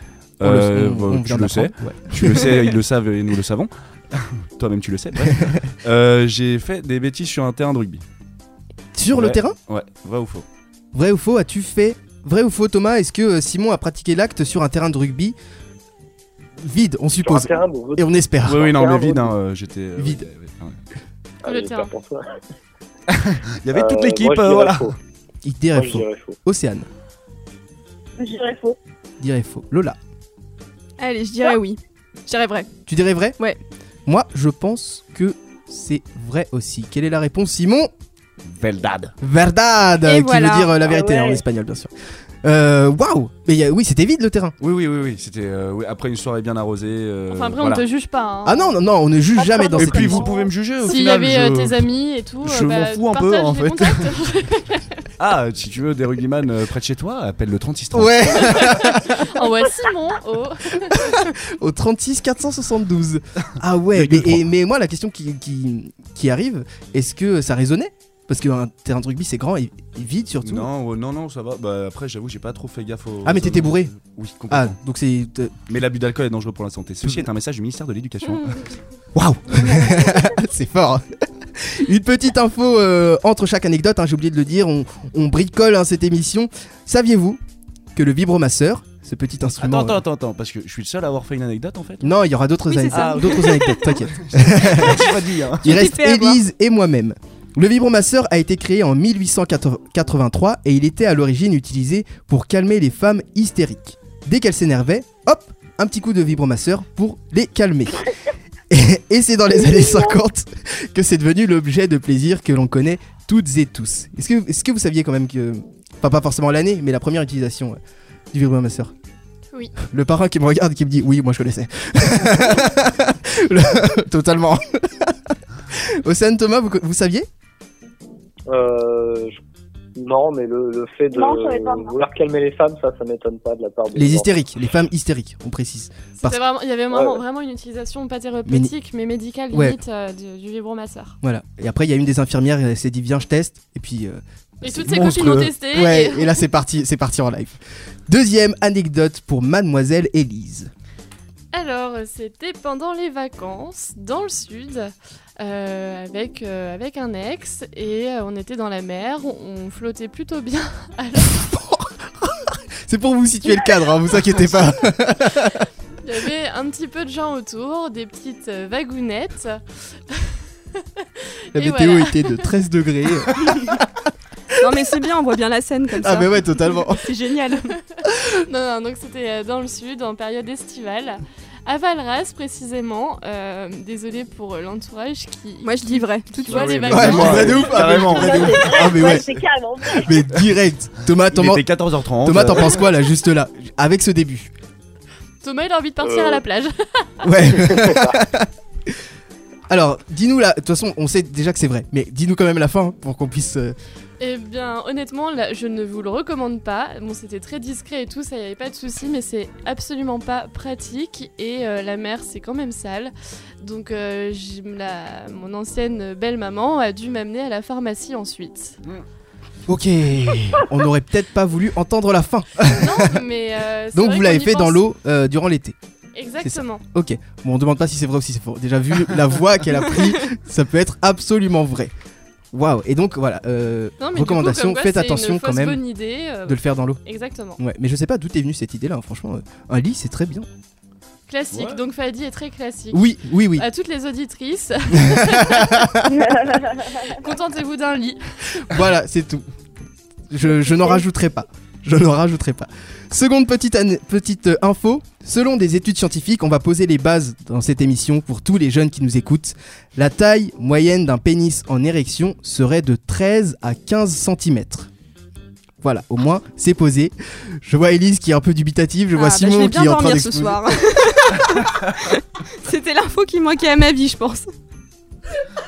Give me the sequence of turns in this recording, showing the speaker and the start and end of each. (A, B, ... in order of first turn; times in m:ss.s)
0:00.4-0:08.0 A
0:00.4-0:02.8 B
0:05.3-0:05.6 B
0:09.0-0:09.6 B
0:09.1-0:10.5 A
0:10.9-0:15.4 B
0:16.6-0:18.7 B
0:17.2-0:19.3 C
0:18.4-0:20.8 A
0:20.0-0:20.2 B
0:21.4-0:22.4 C
0:21.5-0:21.9 D
0:23.1-0:24.9 A
0:23.7-0:25.0 C
0:25.4-0:26.9 B
0:25.7-0:26.4 C
0:28.2-0:28.8 E
0:29.2-0:30.0 B
0:31.0-0:32.7 F
0:32.9-0:33.4 B
0:34.1-0:37.9 B
0:38.5-0:39.1 A
0:39.2-0:41.9 B
0:40.0-0:40.8 F
0:40.8-0:41.4 E
0:42.4-0:44.5 B
0:44.6-0:47.8 A
0:47.3-0:48.8 D
0:48.4-0:50.3 B
0:49.5-0:50.4 E
0:49.7-0:51.8 A
0:50.8-0:55.1 D
0:52.4-0:54.2 A
0:55.2-0:59.0 A
0:57.9-0:59.3 B
0:58.4-1:01.3 D
1:00.9-1:10.7 B
1:03.9-1:04.4 A
1:10.4-1:14.8 A
1:13.2-1:13.9 B
1:14.5-1:15.6 B
1:15.7-1:18.7 A
1:19.2-1:27.4 B
1:28.0-1:30.0 B
1:29.6-1:32.2 A
1:32.0-1:48.1 B
1:32.7-1:34.0 F
1:32.9-1:33.6 A
1:34.1-1:35.8 A
1:35.6-1:36.4 F
1:48.7-1:57.8 B
1:49.8-1:50.1 E
1:58.3-1:58.9 B
1:59.8-2:05.2 B
2:05.7-2:07.3 B
2:08.5-2:09.4 C
2:10.0-2:14.3 C
2:11.1-2:11.9 E
2:14.0-2:16.4 B
2:16.2-2:21.2 D
2:16.9-2:17.2 C
2:18.5-2:18.7 B
2:19.5-2:19.8 B
2:21.2-2:30.7 B
2:24.6-2:26.4 D
2:31.5-2:41.4 D
2:41.3-2:45.6 B
2:46.0-2:52.5 D
2:51.5-2:53.9 B
2:54.6-2:57.8 F
2:56.0-2:57.0 B
2:58.4-3:08.1 D
3:05.6-3:07.4 F
3:06.5-3:09.4 A
3:06.9-3:09.3 B
3:07.9-3:10.3 E
3:09.9-3:11.7 B
3:11.3-3:12.8 A
3:12.2-3:14.5 B
3:15.4-3:17.3 D
3:16.0-3:16.4 C
3:17.2-3:18.9 B
3:17.7-3:18.2 C
3:19.7-3:23.8 B
3:24.2-3:38.8 D
3:39.7-3:43.2 B
3:42.7-3:44.8 D
3:43.9-3:45.8 B
3:46.2-3:46.8 D
3:46.4-3:51.9 B
3:52.5-3:55.8 B
3:54.0-3:57.6 D
3:56.5-3:57.0 B
3:57.6-4:00.5 B
4:01.3-4:05.9 D
4:01.5-4:01.8 A
4:02.9-4:03.7 B
4:05.0-4:06.3 B
4:06.1-4:07.2 E
4:07.0-4:08.6 D
4:08.6-4:09.4 B
4:10.3-4:24.9 B
4:25.8-4:30.6 B
4:29.2-4:34.5 F